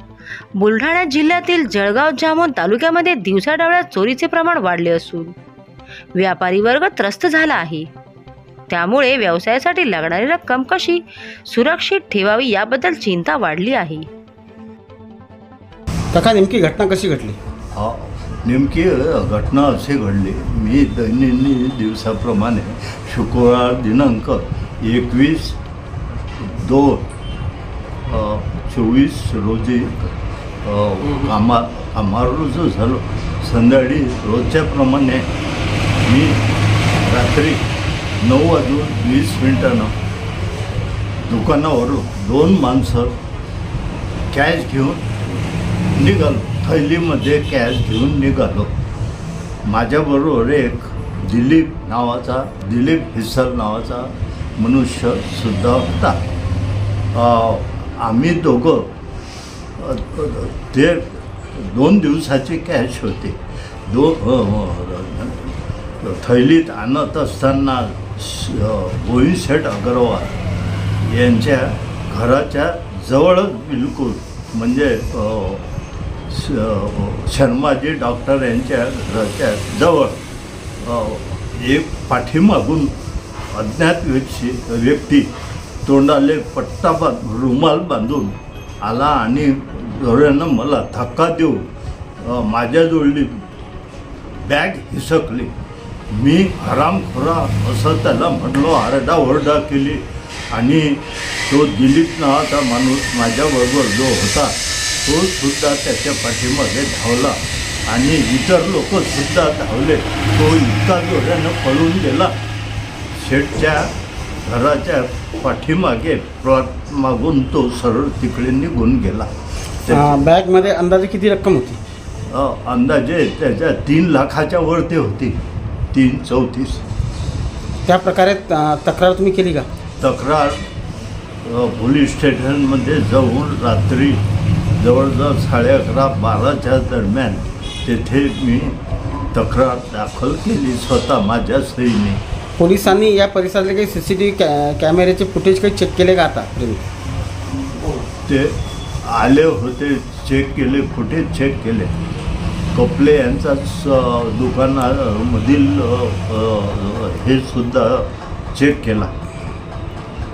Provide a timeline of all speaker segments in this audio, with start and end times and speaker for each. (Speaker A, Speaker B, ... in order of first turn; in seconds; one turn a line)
Speaker A: 0.6-5.3
Speaker A: 6.2-7.9
Speaker A: 8.7-14.1
Speaker B: 16.1-17.4
Speaker C: 17.7-25.6
Speaker C: 26.4-27.0
Speaker C: 28.0-35.3
Speaker C: 36.0-36.4
Speaker C: 37.0-37.7
Speaker C: 38.2-39.9
Speaker C: 41.2-43.2
Speaker C: 44.3-45.1
Speaker C: 45.9-48.7
Speaker C: 49.6-56.2
Speaker C: 57.1-58.9
Speaker C: 59.8-70.4
Speaker C: 71.0-75.7
Speaker C: 76.3-80.2
Speaker C: 80.8-82.9
Speaker C: 83.5-85.3
Speaker C: 85.8-91.7
Speaker C: 92.2-93.4
Speaker C: 94.4-95.5
Speaker C: 96.1-112.3
Speaker C: 113.1-113.9
Speaker C: 114.4-119.3
Speaker C: 119.8-120.2
Speaker B: 119.9-121.8
Speaker C: 122.3-125.4
Speaker C: 125.9-126.8
Speaker B: 127.8-129.7
Speaker C: 130.0-130.6
Speaker C: 131.4-134.2
Speaker C: 134.8-138.8
Speaker C: 139.3-142.2
Speaker B: 142.6-146.8
Speaker C: 148.2-151.9
Speaker C: 152.7-159.1